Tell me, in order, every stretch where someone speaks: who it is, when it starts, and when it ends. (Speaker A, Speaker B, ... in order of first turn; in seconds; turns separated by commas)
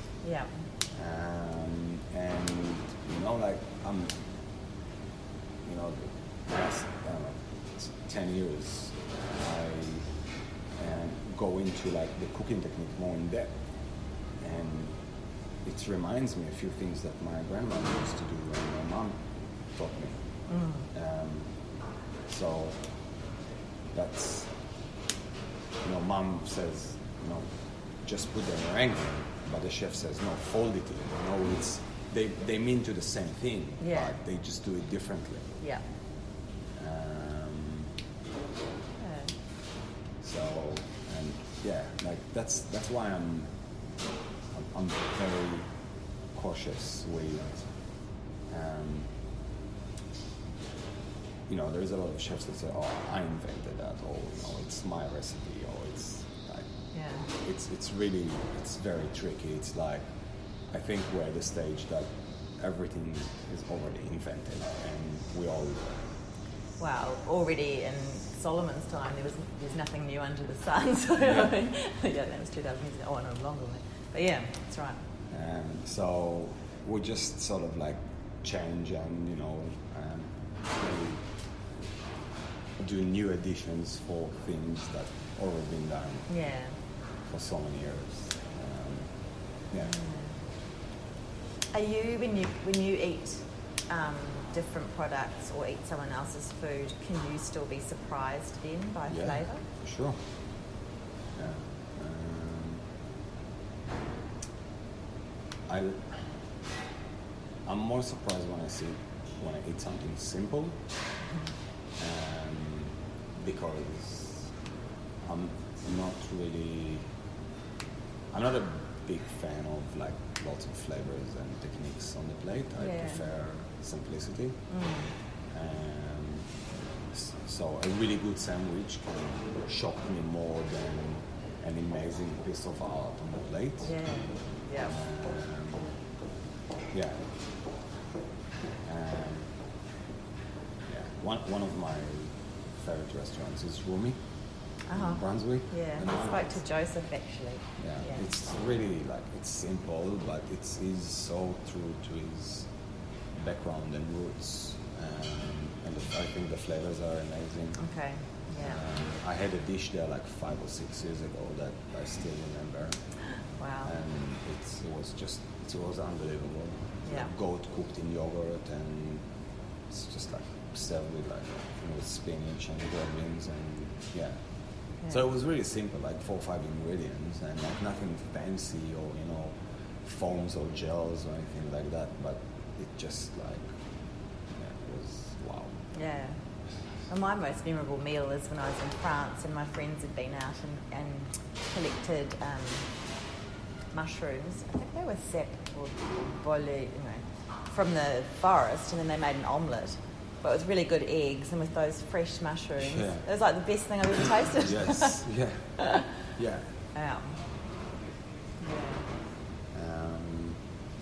Speaker A: 0.2-0.5, Speaker B: 0.9-4.2, Speaker B: 5.6-10.1, Speaker B: 10.8-13.5, Speaker B: 14.4-14.9, Speaker B: 15.6-19.2, Speaker B: 19.7-20.2, Speaker A: 20.5-20.9, Speaker B: 20.9-21.5, Speaker B: 22.3-22.8, Speaker B: 23.9-24.5, Speaker B: 25.8-27.5, Speaker B: 28.0-35.5, Speaker A: 33.8-34.1, Speaker B: 36.8-37.9, Speaker A: 39.0-39.3, Speaker B: 40.2-43.5, Speaker B: 44.5-45.7, Speaker B: 46.3-47.7, Speaker B: 48.5-49.1, Speaker B: 51.5-56.7, Speaker A: 56.9-57.3, Speaker B: 57.4-60.0, Speaker B: 60.7-65.9, Speaker A: 66.8-75.0, Speaker B: 71.2-71.5, Speaker B: 75.3-81.2, Speaker B: 82.8-86.3, Speaker A: 86.3-86.8, Speaker B: 87.3-89.1, Speaker A: 89.8-90.3, Speaker A: 91.7-99.6, Speaker B: 99.1-100.2, Speaker B: 101.4-102.8, Speaker B: 105.7-106.2, Speaker B: 107.7-110.8, Speaker B: 112.0-114.5, Speaker B: 115.2-117.0, Speaker B: 118.3-124.6, Speaker A: 122.8-123.2, Speaker A: 124.7-125.1, Speaker B: 125.5-126.5, Speaker B: 127.1-134.0, Speaker A: 133.8-135.0, Speaker B: 134.8-135.9, Speaker B: 136.9-137.2, Speaker B: 138.8-139.5, Speaker B: 140.9-144.2, Speaker A: 144.9-148.2, Speaker B: 144.9-146.6, Speaker B: 147.8-152.7, Speaker B: 153.4-157.8, Speaker A: 157.8-158.8, Speaker B: 158.6-163.0, Speaker A: 163.6-163.9, Speaker B: 163.8-169.2, Speaker B: 169.9-174.4, Speaker B: 175.1-183.7, Speaker B: 184.5-185.8, Speaker A: 185.9-186.4, Speaker A: 187.1-192.9, Speaker A: 193.9-205.2, Speaker B: 202.8-203.2, Speaker B: 204.5-205.7, Speaker A: 205.8-206.1, Speaker B: 206.4-206.7, Speaker A: 206.9-207.4, Speaker A: 208.6-209.1, Speaker B: 209.7-210.6